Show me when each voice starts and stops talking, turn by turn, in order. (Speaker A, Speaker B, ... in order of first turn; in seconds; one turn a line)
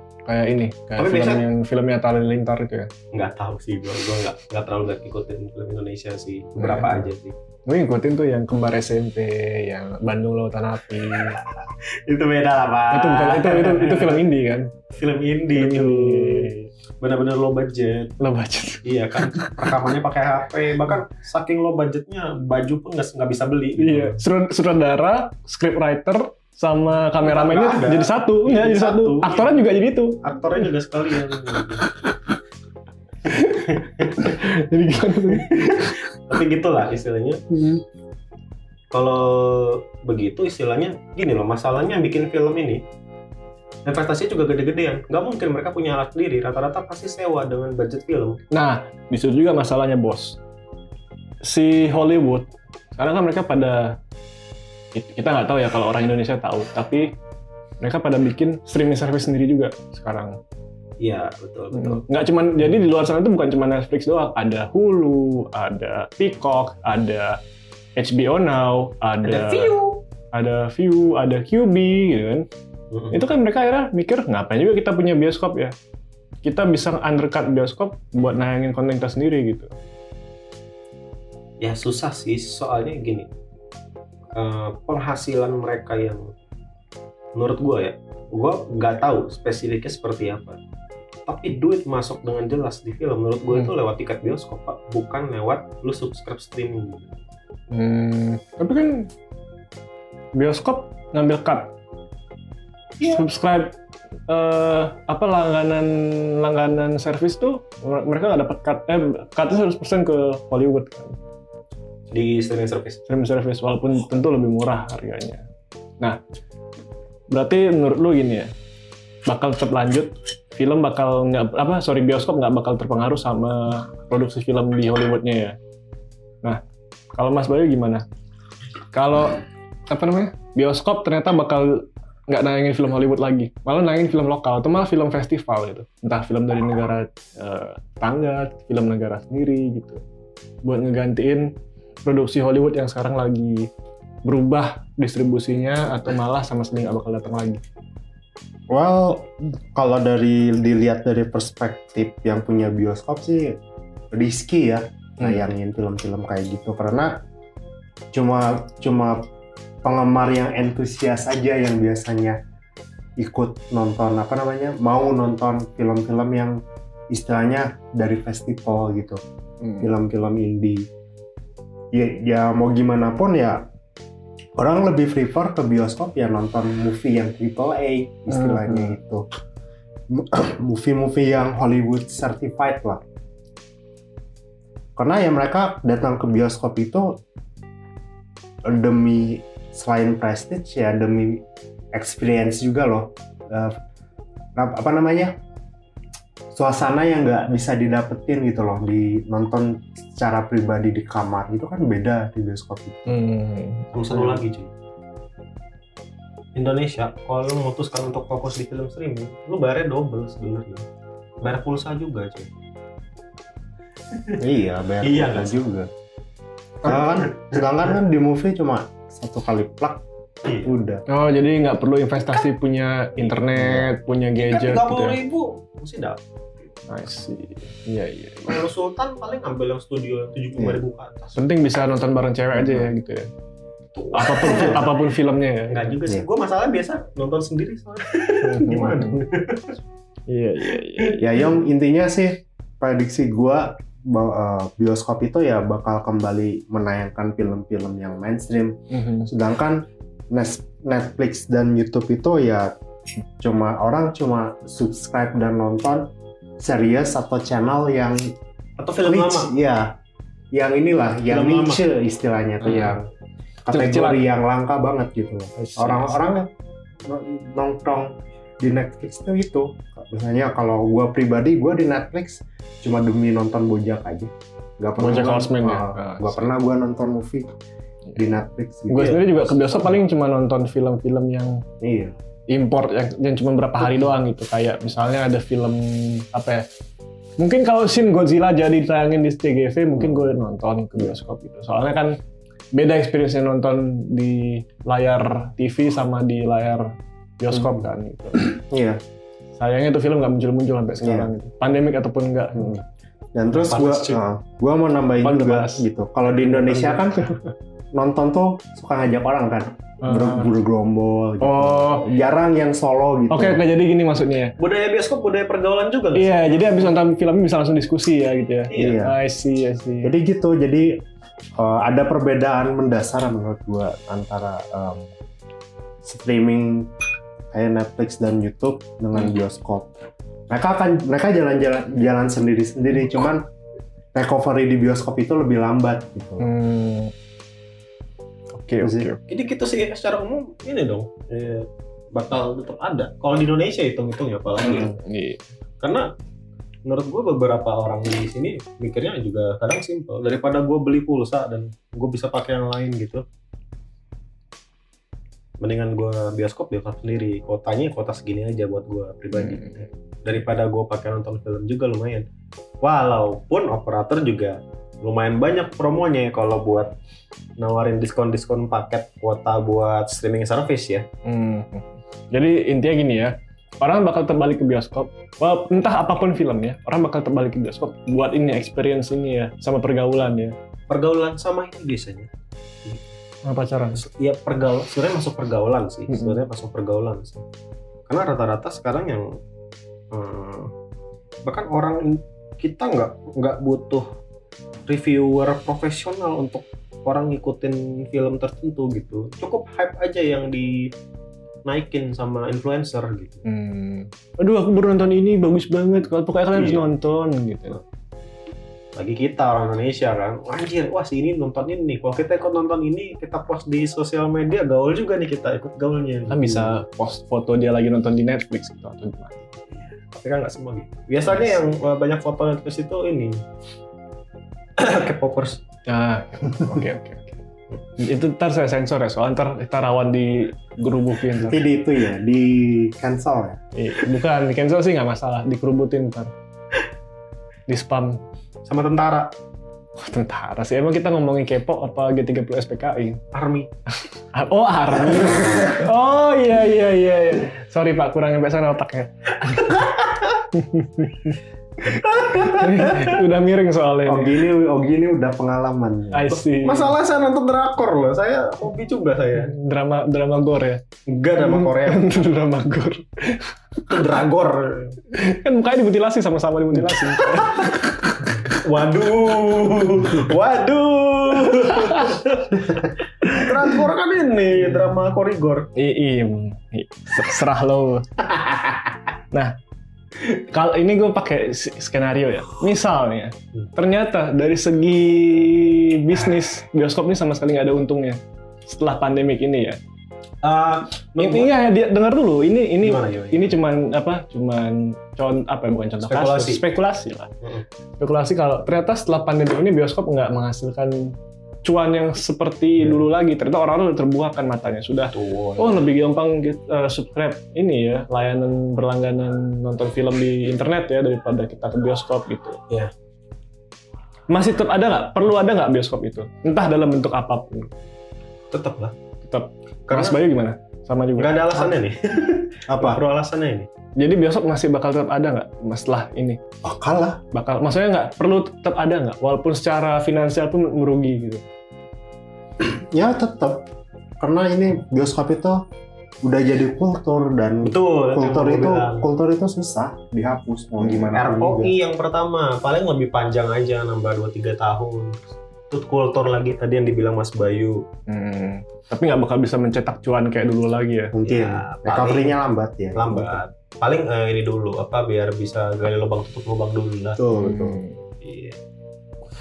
Speaker A: 0.3-2.9
Speaker B: 1.0-1.4
Speaker B: 3.1-7.3
Speaker A: 6.6-7.0
Speaker A: 7.7-11.4
Speaker B: 12.0-14.2
Speaker A: 12.9-14.7
Speaker B: 14.9-18.1
Speaker A: 15.5-16.7
Speaker A: 18.2-19.7
Speaker B: 18.8-24.2
Speaker A: 23.8-30.2
Speaker B: 27.2-29.6
Speaker B: 30.2-31.9
Speaker A: 33.3-36.0
Speaker B: 33.5-34.4
Speaker B: 35.3-37.4
Speaker A: 37.5-37.8
Speaker B: 38.9-42.8
Speaker B: 43.9-48.4
Speaker A: 48.5-50.4
Speaker A: 51.4-54.0
Speaker A: 54.9-57.1
Speaker A: 57.8-60.4
Speaker B: 61.0-62.0
Speaker A: 61.7-67.4
Speaker A: 68.0-69.7
Speaker B: 69.2-70.0
Speaker A: 70.3-72.5
Speaker B: 72.9-73.2
Speaker A: 73.1-75.7
Speaker A: 76.4-79.7
Speaker B: 81.6-83.3
Speaker B: 84.3-86.2
Speaker B: 87.3-90.6
Speaker B: 91.3-97.1
Speaker A: 97.7-99.1
Speaker A: 100.3-101.7
Speaker A: 103.0-103.7
Speaker A: 104.3-111.2
Speaker B: 112.1-113.0
Speaker A: 113.0-115.4
Speaker A: 117.3-118.5
Speaker A: 119.3-125.6
Speaker A: 127.1-128.0
Speaker A: 128.9-140.0
Speaker A: 140.6-141.5
Speaker A: 142.0-143.7
Speaker A: 144.2-147.6
Speaker C: 148.7-153.6
Speaker C: 154.1-157.2
Speaker C: 158.1-159.2
Speaker C: 159.8-162.4
Speaker C: 163.2-169.2
Speaker A: 169.6-169.9
Speaker C: 169.8-170.8
Speaker C: 171.9-173.7
Speaker C: 174.6-179.2
Speaker A: 178.3-179.0
Speaker C: 180.1-183.0
Speaker C: 184.9-187.2
Speaker C: 188.6-193.8
Speaker C: 194.6-195.4
Speaker C: 196.5-203.2
Speaker A: 203.1-203.9
Speaker B: 203.9-204.7
Speaker C: 204.1-204.4
Speaker B: 206.5-210.8
Speaker B: 211.4-212.5
Speaker B: 214.1-214.4
Speaker C: 214.4-215.9
Speaker B: 215.0-215.6
Speaker C: 216.8-220.0
Speaker B: 216.9-217.6
Speaker B: 220.4-220.7
Speaker C: 220.6-221.0
Speaker A: 221.1-225.2
Speaker C: 223.5-223.9
Speaker B: 224.4-226.2
Speaker A: 226.9-228.6
Speaker B: 228.4-231.4
Speaker C: 230.6-230.8
Speaker A: 231.3-233.3
Speaker C: 232.5-232.9
Speaker B: 233.9-235.0
Speaker A: 234.1-235.9
Speaker B: 235.7-239.8
Speaker A: 238.4-239.2
Speaker A: 240.3-241.3
Speaker C: 241.2-252.7
Speaker A: 248.9-249.3
Speaker C: 253.4-256.1
Speaker C: 256.6-258.3
Speaker B: 258.8-259.5
Speaker C: 259.0-259.9
Speaker C: 260.5-263.1
Speaker B: 261.3-261.8
Speaker C: 263.6-266.5
Speaker A: 263.7-264.3
Speaker A: 265.6-266.2
Speaker C: 267.0-277.5
Speaker A: 275.0-276.5
Speaker C: 278.1-279.9
Speaker A: 278.9-281.6
Speaker C: 281.8-282.1
Speaker A: 282.5-286.6
Speaker A: 287.4-292.2
Speaker A: 292.7-298.5
Speaker C: 298.4-299.0
Speaker A: 299.6-302.8
Speaker C: 301.0-301.3
Speaker C: 302.6-302.8
Speaker C: 303.3-307.4
Speaker B: 303.5-304.2
Speaker A: 305.2-305.8
Speaker A: 306.4-307.5
Speaker C: 307.9-313.6
Speaker A: 310.0-310.5
Speaker A: 311.4-312.2
Speaker A: 313.3-314.5
Speaker B: 314.6-316.9
Speaker A: 316.1-320.1
Speaker B: 318.7-319.0
Speaker C: 318.7-319.2
Speaker C: 320.0-321.0
Speaker C: 321.6-325.1
Speaker C: 326.0-326.9
Speaker C: 327.5-329.9
Speaker C: 330.5-333.5
Speaker C: 334.1-336.5
Speaker A: 336.4-337.1
Speaker A: 338.5-339.2
Speaker C: 338.8-339.1
Speaker B: 339.3-344.9
Speaker A: 344.8-345.4
Speaker B: 345.8-346.1
Speaker B: 346.8-353.2
Speaker B: 355.6-362.2
Speaker A: 359.4-359.7
Speaker B: 362.8-366.9
Speaker B: 367.6-371.1
Speaker A: 371.2-380.5
Speaker B: 380.9-382.3
Speaker B: 382.8-383.1
Speaker A: 383.4-384.0
Speaker B: 384.0-387.4
Speaker B: 388.1-389.4
Speaker B: 390.1-390.7
Speaker B: 391.4-394.1
Speaker B: 394.9-400.9
Speaker B: 401.6-403.4
Speaker A: 403.4-407.8
Speaker B: 406.5-406.9
Speaker B: 408.9-416.8
Speaker A: 416.3-419.5
Speaker B: 419.9-423.4
Speaker A: 421.3-421.6
Speaker B: 424.8-425.6
Speaker A: 425.9-427.4
Speaker A: 428.0-431.6
Speaker C: 431.4-433.6
Speaker A: 433.7-436.3
Speaker A: 437.7-438.2
Speaker B: 438.6-439.3
Speaker A: 440.0-443.2
Speaker B: 443.3-443.7
Speaker A: 444.3-451.4
Speaker B: 451.8-453.2
Speaker A: 451.9-454.4
Speaker C: 454.1-456.4
Speaker A: 456.1-456.9
Speaker B: 456.4-459.5
Speaker A: 459.4-460.8
Speaker B: 461.1-462.2
Speaker A: 461.4-463.5
Speaker B: 463.9-465.0
Speaker A: 465.1-468.2
Speaker B: 467.2-467.7
Speaker B: 468.4-475.7
Speaker A: 471.9-472.1
Speaker A: 475.8-478.2
Speaker A: 479.3-479.6
Speaker A: 480.2-489.8
Speaker B: 490.4-491.5
Speaker A: 491.2-497.3
Speaker B: 492.8-493.6
Speaker B: 496.0-496.6
Speaker A: 498.0-512.6
Speaker B: 505.1-505.9
Speaker A: 514.3-517.7
Speaker B: 518.5-518.9
Speaker A: 519.2-521.7
Speaker B: 519.9-520.2
Speaker B: 521.2-523.7
Speaker C: 522.7-523.0
Speaker A: 524.0-526.4
Speaker C: 526.6-527.2
Speaker A: 527.3-531.4
Speaker C: 532.6-533.7
Speaker C: 534.2-535.6
Speaker C: 536.2-541.7
Speaker B: 537.6-539.0
Speaker B: 540.8-547.8
Speaker A: 548.1-551.1
Speaker C: 551.1-553.4
Speaker B: 551.2-552.4
Speaker B: 552.9-557.2
Speaker C: 557.1-557.8
Speaker A: 557.3-558.0
Speaker B: 558.2-558.6